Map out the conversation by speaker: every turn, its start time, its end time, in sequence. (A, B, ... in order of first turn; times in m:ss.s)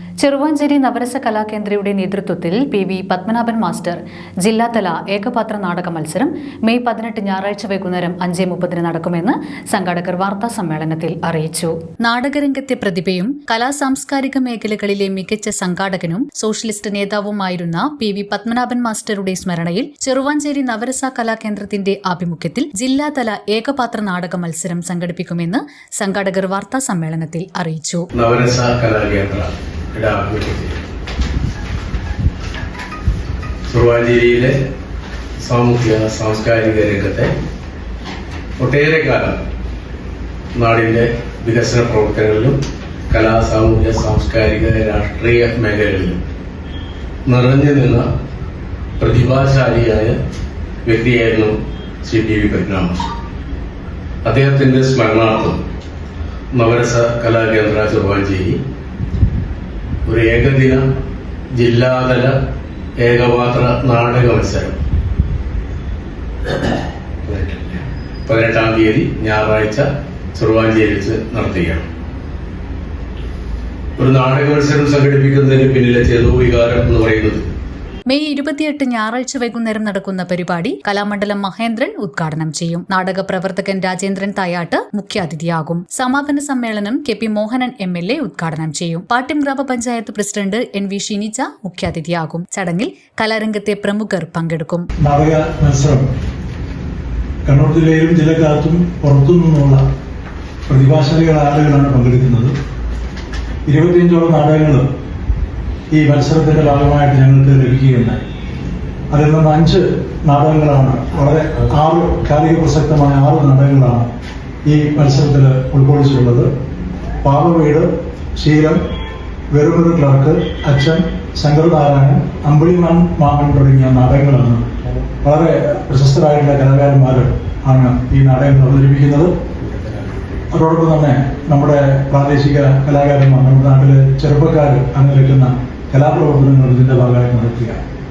0:00.2-0:28.1 A
0:28.2-0:30.8 B
0:33.7-0:34.6 B
0:35.4-0:37.3 B
0:38.6-0:39.4 B
0:40.6-0:42.6 B
0:43.1-0:46.2 B
0:47.3-0:48.1 B
0:49.0-0:50.2 B
0:50.8-0:53.1 B
0:54.2-0:55.6 B
0:56.5-0:58.6 B
1:00.0-1:00.8 B
1:01.6-1:02.3 B
1:03.0-1:04.8 B
1:07.2-1:11.9 B
1:14.0-1:17.5 B
1:18.1-1:34.9 A
1:35.0-1:36.1 C
1:37.4-1:39.8 C
1:40.7-1:42.5 C
1:43.7-1:44.9 C
1:45.9-1:48.2 C
1:49.1-1:54.1 C
1:54.6-1:56.5 C
1:57.2-1:58.9 C
1:59.5-2:04.7 C
2:05.2-2:09.3 C
2:09.7-2:10.2 B
2:10.5-2:17.8 C